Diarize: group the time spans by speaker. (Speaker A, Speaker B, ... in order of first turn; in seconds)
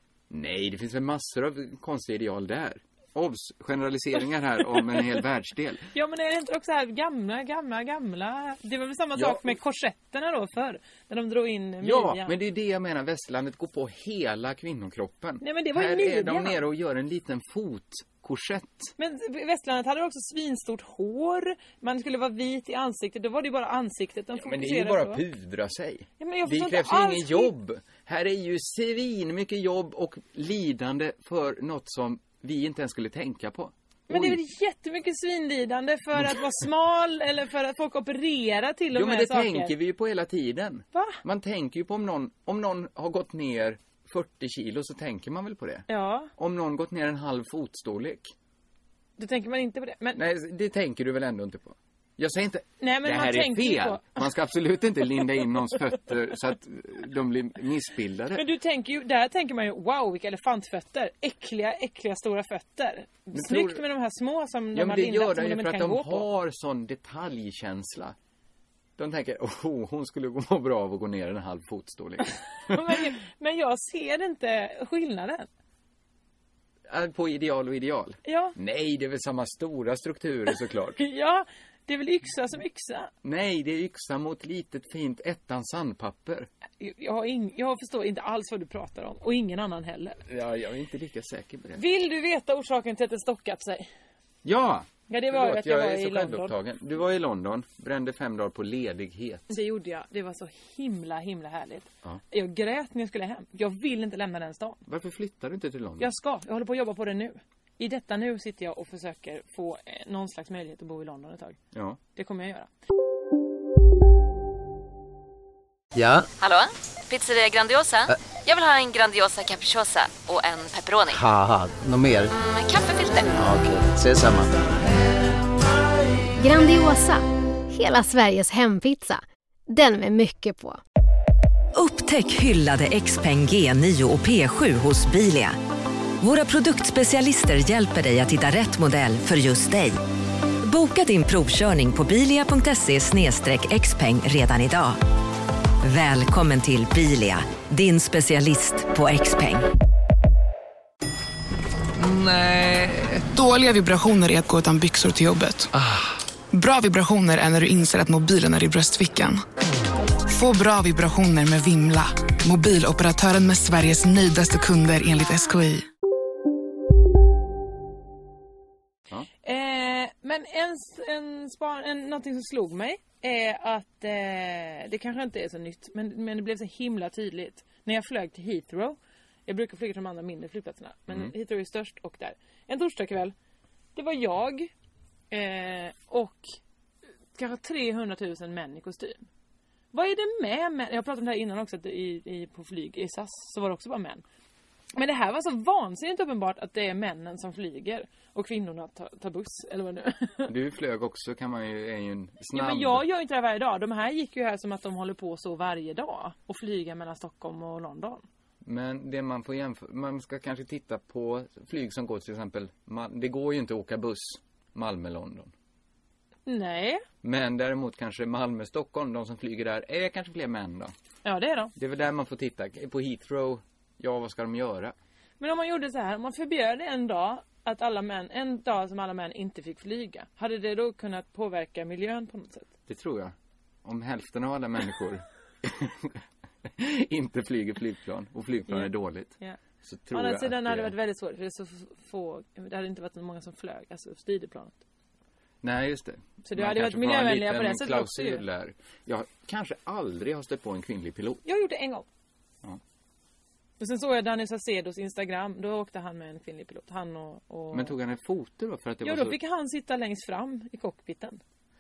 Speaker A: 0.3-5.9, 9.2-9.5, 11.8-18.9, 24.4-34.4, 38.9-48.3, 50.1-58.5, 63.3-63.9, 64.7-68.2, 69.0-73.1, 76.9-81.0, 83.2-86.5, 90.3-91.8, 94.4-99.6, 104.9-106.1, 111.7-112.0, 200.5-203.1, 208.6-215.5, 217.2-220.9, 221.8-224.9, 232.9-240.9, 245.6-251.4, 257.7-259.4
Speaker B: 5.9-12.3, 15.4-16.6, 19.0-25.2, 26.2-27.5, 34.1-39.7, 40.9-41.2, 45.9-46.3, 49.2-50.2, 52.8-54.2, 58.4-66.3, 72.7-75.5, 78.2-78.5, 81.0-83.1, 86.8-90.2, 91.8-93.9, 95.1-96.5, 99.5-104.8, 106.0-111.6, 112.2-112.7, 169.4-183.3, 184.0-184.7, 185.3-186.6, 187.3-189.2, 189.9-194.2, 194.9-200.5, 202.5-208.2, 216.5-217.0, 221.2-221.7, 225.4-232.7, 238.7-239.6, 240.1-244.8, 246.4-248.4, 251.4-252.1, 253.8-257.9, 259.0-261.4
Speaker C: 116.0-116.2, 121.1-122.3, 123.4-124.5
Speaker D: 116.4-121.2, 122.3-123.4
Speaker E: 126.4-130.8
Speaker F: 131.7-135.6, 136.2-140.0, 140.6-145.0, 145.8-149.7
Speaker G: 153.2-155.7, 156.5-159.4, 160.3-165.9